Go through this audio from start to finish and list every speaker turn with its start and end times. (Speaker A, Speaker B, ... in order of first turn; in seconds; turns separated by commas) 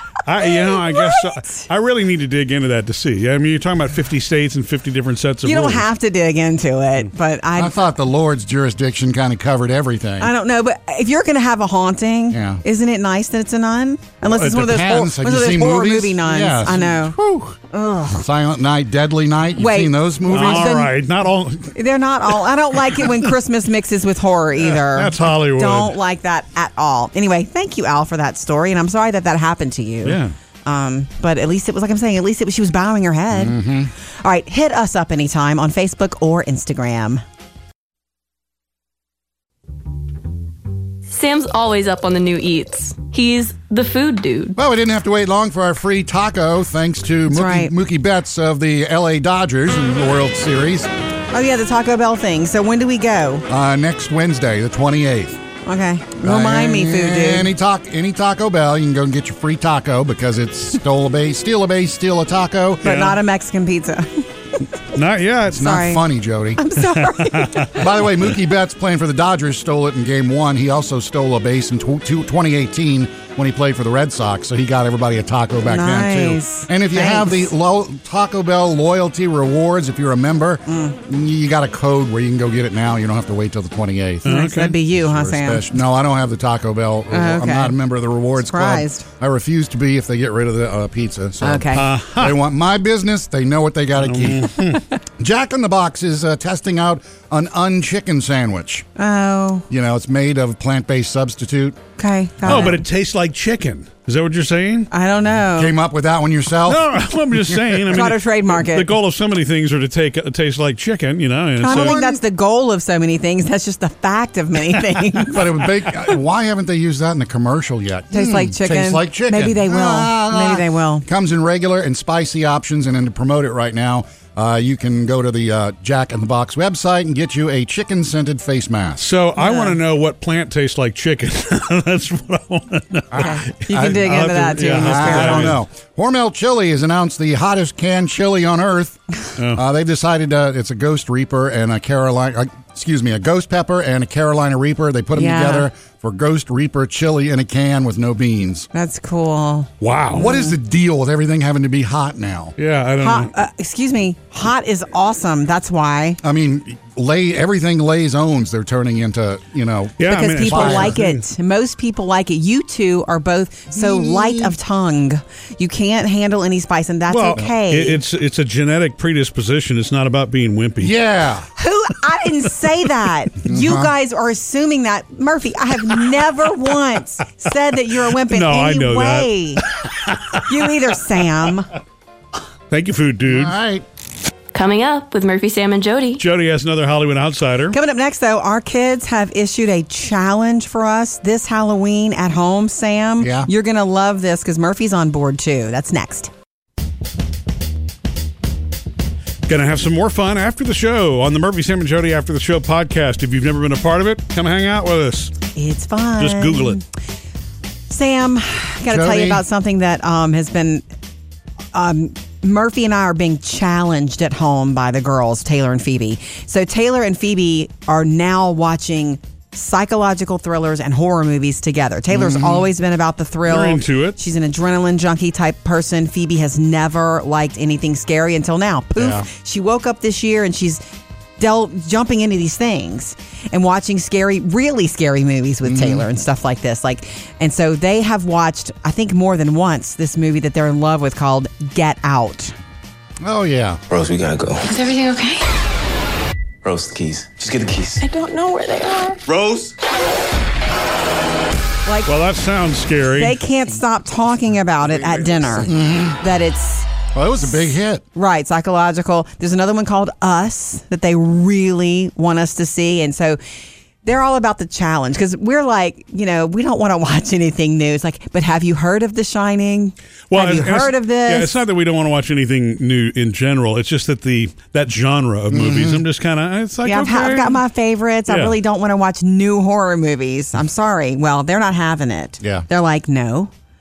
Speaker A: 0.2-5.8, Speaker B: 0.7-1.6, Speaker B: 5.4-7.7, Speaker C: 7.5-10.3, Speaker B: 10.2-17.2, Speaker C: 12.3-12.6, Speaker C: 14.3-17.6, Speaker B: 17.7-18.2, Speaker C: 18.1-20.9, Speaker B: 19.6-20.9, Speaker A: 20.3-21.8, Speaker B: 21.7-37.2, Speaker A: 24.6-26.0, Speaker A: 30.0-30.3, Speaker C: 33.3-33.9, Speaker D: 41.1-44.6, Speaker C: 44.5-50.9, Speaker B: 47.3-47.7, Speaker B: 51.3-53.4, Speaker C: 53.5-55.4, Speaker B: 55.6-57.5, Speaker C: 56.2-63.0, Speaker B: 62.8-64.2, Speaker A: 62.8-63.2, Speaker A: 64.9-65.7, Speaker C: 65.5-66.6, Speaker B: 65.6-66.0, Speaker B: 66.5-67.8, Speaker A: 66.8-67.7, Speaker C: 67.8-98.8, Speaker B: 75.7-77.5, Speaker B: 80.7-80.9, Speaker A: 84.2-84.7, Speaker B: 84.2-85.7, Speaker B: 87.1-87.8, Speaker B: 88.4-89.0, Speaker B: 91.4-91.8, Speaker A: 91.7-92.4, Speaker A: 94.0-94.8, Speaker B: 99.0-99.7, Speaker C: 99.7-101.8, Speaker B: 102.0-102.8, Speaker A: 102.4-104.9, Speaker B: 104.9-105.7, Speaker C: 105.5-107.8, Speaker A: 106.7-112.0, Speaker B: 107.9-108.9, Speaker B: 111.6-115.4, Speaker C: 111.6-112.2, Speaker C: 115.3-129.1, Speaker B: 118.1-121.0, Speaker A: 129.0-135.6, Speaker B: 129.4-129.8, Speaker C: 133.1-139.0, Speaker B: 133.2-135.6, Speaker A: 139.4-139.6, Speaker C: 139.5-148.7, Speaker B: 145.1-145.7, Speaker B: 148.7-150.5, Speaker A: 149.8-150.3, Speaker C: 150.1-152.5, Speaker A: 152.6-153.3, Speaker B: 153.0-156.2, Speaker C: 156.2-160.9, Speaker A: 160.0-161.2, Speaker B: 160.1-168.0, Speaker C: 163.7-164.5, Speaker A: 167.1-170.9, Speaker C: 170.8-171.5, Speaker B: 171.6-179.6, Speaker C: 173.4-173.9, Speaker A: 178.3-179.3, Speaker A: 180.1-180.4, Speaker B: 180.4-181.7, Speaker A: 182.7-183.5, Speaker C: 183.2-183.8, Speaker D: 184.5-186.2, Speaker A: 186.2-187.8, Speaker B: 187.7-196.3, Speaker C: 193.2-193.5, Speaker A: 199.5-205.3, Speaker B: 205.6-206.8, Speaker A: 206.2-206.8, Speaker B: 207.9-210.8, Speaker C: 208.9-209.4, Speaker B: 211.7-230.8, Speaker C: 222.1-222.7, Speaker A: 223.5-224.2, Speaker C: 229.0-229.3, Speaker B: 231.4-242.5, Speaker C: 235.6-236.0, Speaker C: 243.2-243.8, Speaker E: 243.9-244.7, Speaker F: 244.6-245.4, Speaker E: 246.6-248.0, Speaker F: 248.0-249.2, Speaker E: 249.3-249.7, Speaker B: 251.8-252.1, Speaker A: 252.1-253.4, Speaker B: 253.1-256.9, Speaker C: 255.7-256.2, Speaker C: 257.1-258.0, Speaker B: 258.1-263.4, Speaker B: 264.0-271.6, Speaker A: 270.3-277.6, Speaker C: 275.5-276.0, Speaker B: 276.8-283.5, Speaker A: 278.3-278.6